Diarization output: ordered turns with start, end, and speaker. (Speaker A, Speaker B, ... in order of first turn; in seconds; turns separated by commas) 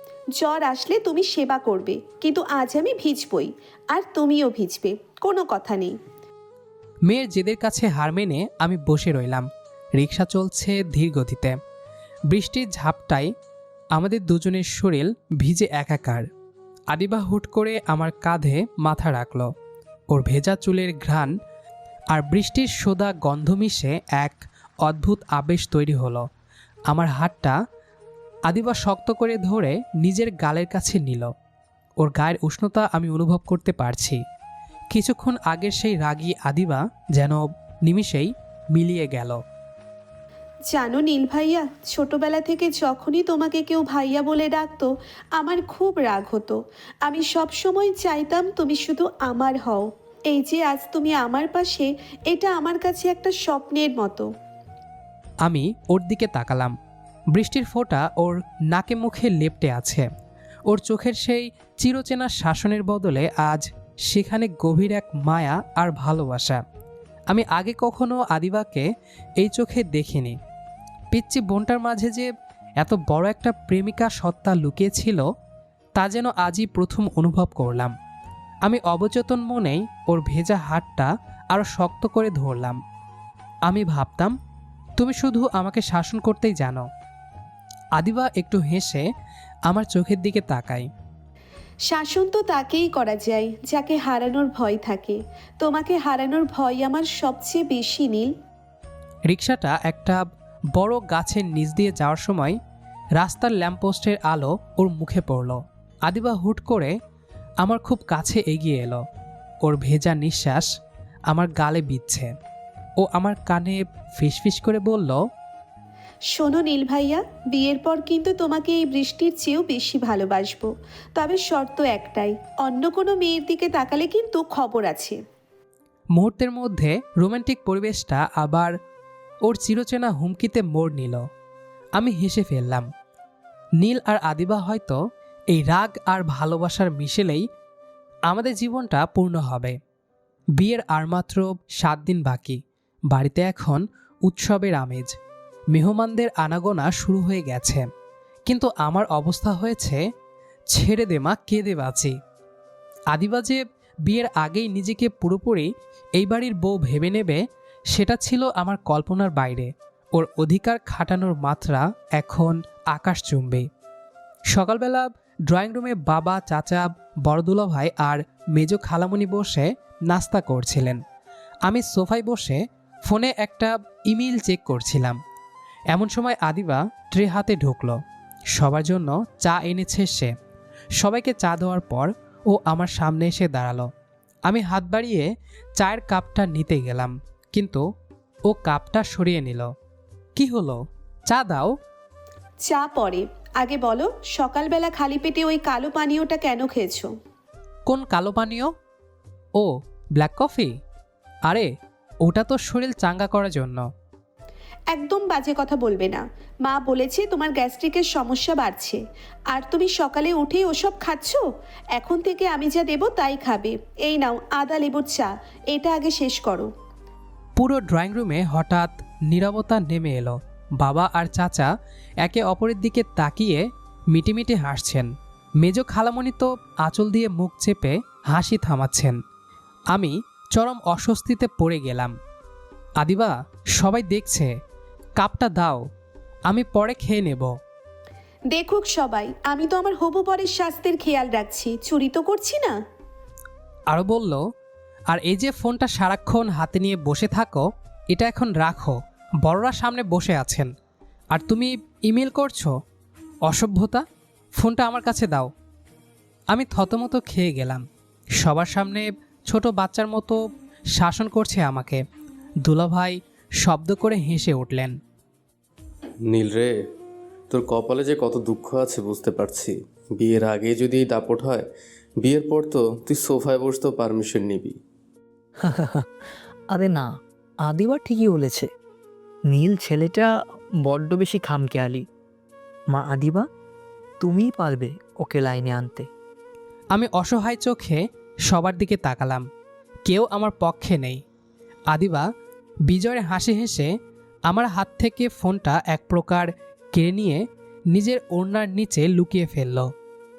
Speaker A: 0.3-6.0, Speaker B: 7.0-11.6, Speaker B: 12.3-13.3, Speaker B: 13.9-16.3, Speaker B: 16.9-19.5, Speaker B: 20.1-21.3, Speaker B: 22.1-26.2, Speaker B: 26.9-27.6, Speaker B: 28.5-31.3, Speaker B: 32.0-34.2, Speaker B: 34.9-39.4, Speaker A: 40.7-54.3, Speaker B: 55.4-56.7, Speaker B: 57.3-60.1, Speaker B: 60.7-66.6, Speaker B: 67.3-68.9, Speaker B: 69.4-70.4, Speaker B: 71.1-75.2, Speaker B: 76.0-77.9, Speaker B: 78.6-82.8, Speaker B: 83.7-84.3, Speaker B: 85.0-86.9, Speaker B: 88.0-89.0, Speaker B: 89.7-90.9, Speaker A: 91.9-98.3, Speaker B: 99.3-102.6, Speaker B: 103.2-106.9, Speaker B: 107.6-109.0, Speaker B: 109.6-110.7, Speaker B: 111.3-112.3, Speaker B: 113.0-115.2, Speaker A: 116.3-125.2, Speaker B: 126.1-128.8, Speaker B: 129.4-131.2, Speaker B: 131.9-132.9, Speaker B: 133.8-135.0, Speaker B: 135.5-137.5, Speaker B: 138.3-139.8, Speaker B: 140.6-145.2, Speaker B: 145.7-147.8, Speaker B: 148.5-150.0, Speaker B: 150.7-152.2, Speaker B: 153.1-163.7, Speaker B: 164.5-171.0, Speaker B: 171.7-175.2, Speaker B: 175.9-178.0, Speaker B: 178.5-180.3, Speaker B: 181.0-183.9, Speaker B: 184.5-187.8, Speaker B: 188.5-189.7, Speaker B: 190.3-191.7, Speaker A: 192.6-197.1, Speaker B: 197.9-198.7, Speaker B: 199.6-200.8, Speaker B: 202.2-203.8, Speaker A: 204.9-216.7, Speaker B: 217.6-221.7, Speaker B: 222.2-229.2, Speaker B: 229.9-232.1, Speaker B: 233.0-234.6, Speaker B: 235.2-235.8, Speaker B: 236.5-237.6, Speaker A: 238.5-242.8, Speaker B: 243.9-244.4, Speaker B: 245.1-250.7, Speaker B: 251.3-252.7, Speaker B: 253.4-254.0, Speaker B: 254.6-255.5, Speaker B: 256.5-257.8, Speaker B: 258.4-260.4, Speaker B: 260.9-262.0, Speaker B: 262.6-265.0, Speaker C: 266.2-266.8, Speaker C: 267.5-271.6, Speaker C: 272.2-274.8, Speaker D: 275.6-276.1, Speaker D: 276.7-278.7, Speaker D: 279.5-280.3, Speaker D: 280.8-282.0, Speaker D: 282.9-283.4, Speaker D: 284.2-286.1, Speaker B: 286.9-289.4, Speaker B: 290.1-291.2, Speaker B: 291.9-292.3, Speaker B: 292.9-293.9, Speaker B: 294.5-299.9